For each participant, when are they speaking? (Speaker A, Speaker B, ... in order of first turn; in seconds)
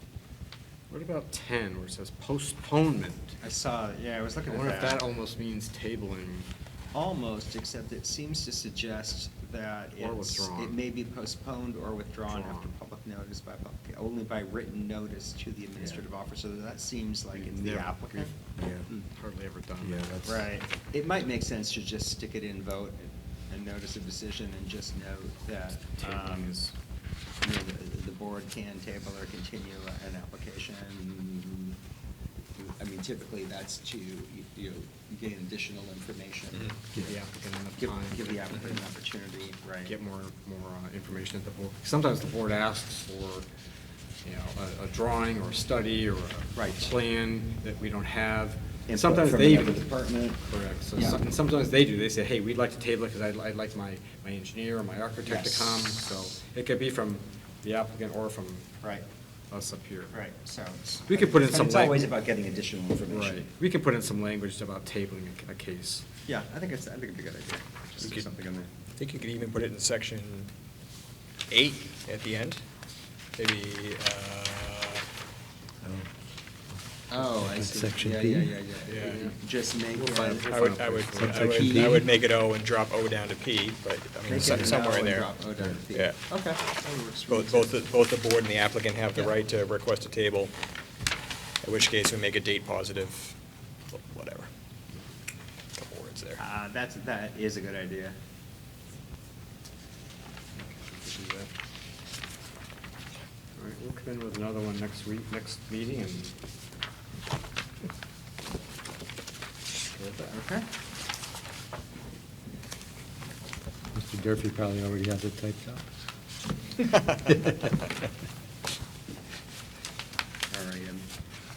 Speaker A: 0.9-3.4, 4.5-6.5, 10.0-10.8, 12.3-12.7, 17.3-18.3, 18.9-20.4, 25.9-26.7, 36.9-38.8, 39.9-43.5, 44.2-49.9, 50.4-58.7, 59.5-60.2, 61.1-62.1, 63.1-66.1, 78.9-79.4, 79.9-82.0, 100.6-101.5, 103.5-106.4
Speaker B: 3.4-5.0, 6.9-18.4, 20.2-26.6, 27.4-31.8, 32.6-36.9, 37.8-40.0, 46.5-46.9, 48.9-50.4, 50.9-51.2, 55.2-56.0, 60.1-63.5, 66.3-68.7, 77.1-80.7, 81.4-82.0, 84.3-87.8, 96.4-98.2, 110.0-110.7, 120.5-121.1
Speaker C: 18.6-18.9, 19.8-20.5, 75.8-76.1, 77.2-78.6, 81.2-82.0, 84.2-84.8, 113.9-115.9
Speaker D: 69.0-70.5, 71.5-72.6, 73.4-75.1, 78.9-79.2, 80.5-85.3, 85.9-86.2, 87.3-90.5, 91.6-93.4, 93.9-94.5, 95.8-96.4